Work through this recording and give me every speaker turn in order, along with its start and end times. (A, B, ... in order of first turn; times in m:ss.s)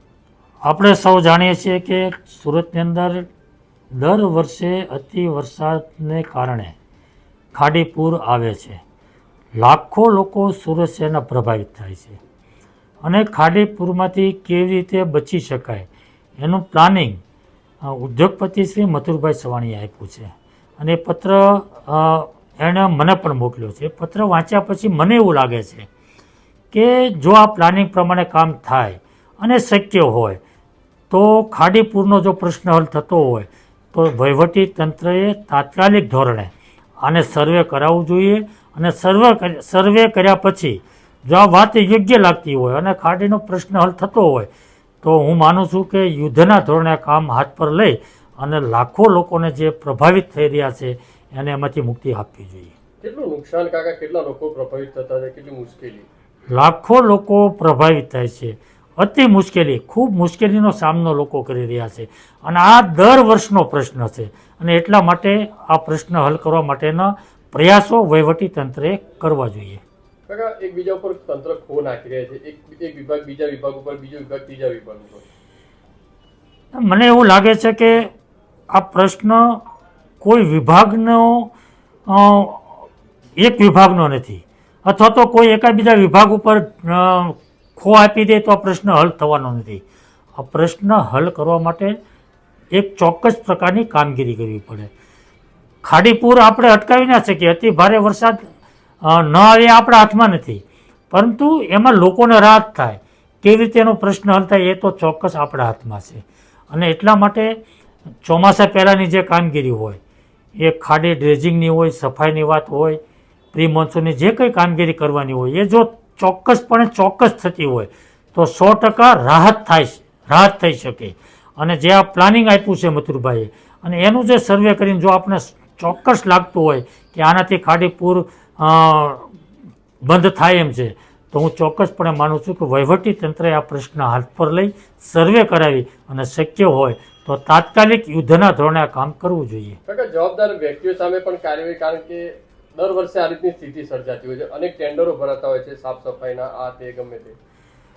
0:00.6-0:03.3 A
0:03.9-0:06.7 A
0:07.5-0:08.8 A
0:09.6-0:12.2 A
0:13.0-0:17.2 A
0:17.8-0:25.9 A
0:26.7-0:30.4 A
0:31.1-0:44.5 A
0:45.0-0:52.7 A
0:53.0-0:56.0 B
0:56.5-1:09.8 A
1:10.3-1:15.2 B
1:16.7-1:18.1 A
1:18.7-1:19.6 A
1:20.2-1:21.5 A
1:22.0-1:29.8 A
1:30.4-1:31.9 A
1:32.7-1:34.9 A
1:35.8-1:38.4 A
1:39.0-1:47.6 A
1:48.2-1:50.0 A
1:50.6-1:53.0 A
1:53.5-2:09.3 A
2:10.0-2:19.8 A
2:19.9-2:27.3 B